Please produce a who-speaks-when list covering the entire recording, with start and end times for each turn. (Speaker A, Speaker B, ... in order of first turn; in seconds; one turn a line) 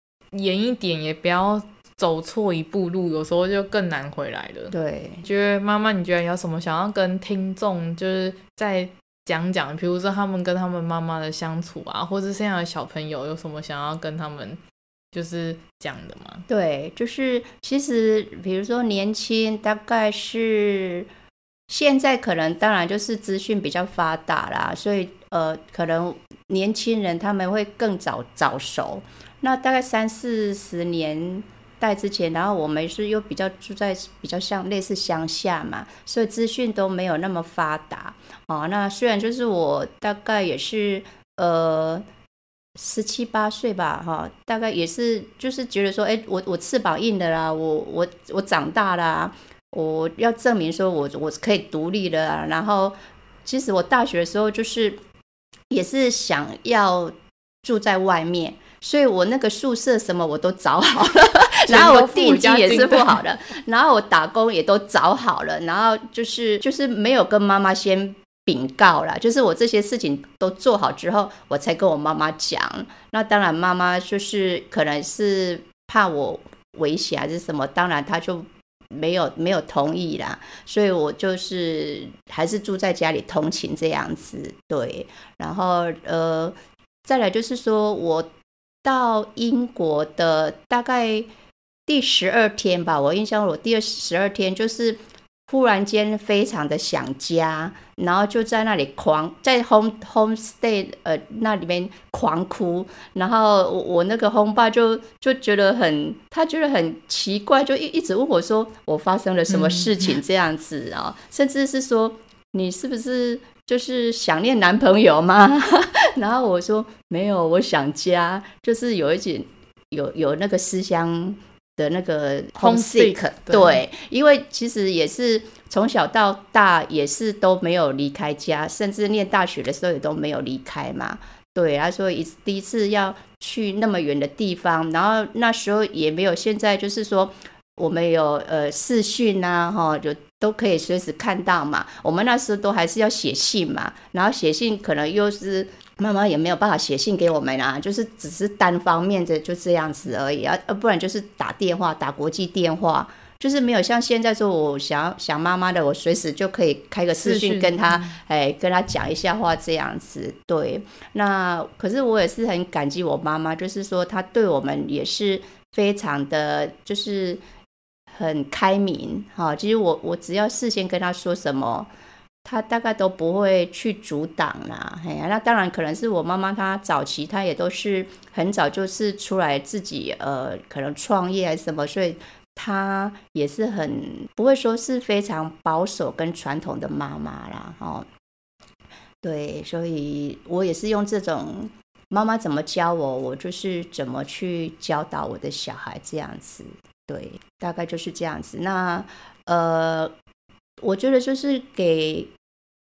Speaker A: 0.3-4.7
Speaker B: 4.7-5.2
Speaker A: 5.2-14.6
Speaker A: 15.1-16.4
Speaker B: 16.5-21.1
Speaker B: 21.7-42.0
Speaker B: 42.8-55.0
Speaker B: 55.7-88.3
Speaker A: 61.7-63.2
Speaker B: 88.8-91.3
Speaker B: 91.9-167.4
Speaker A: 109.5-110.1
Speaker A: 122.6-123.8
Speaker A: 157.1-158.2
Speaker B: 168.1-171.9
Speaker B: 172.4-188.1
Speaker B: 189.2-200.1
Speaker B: 200.8-202.3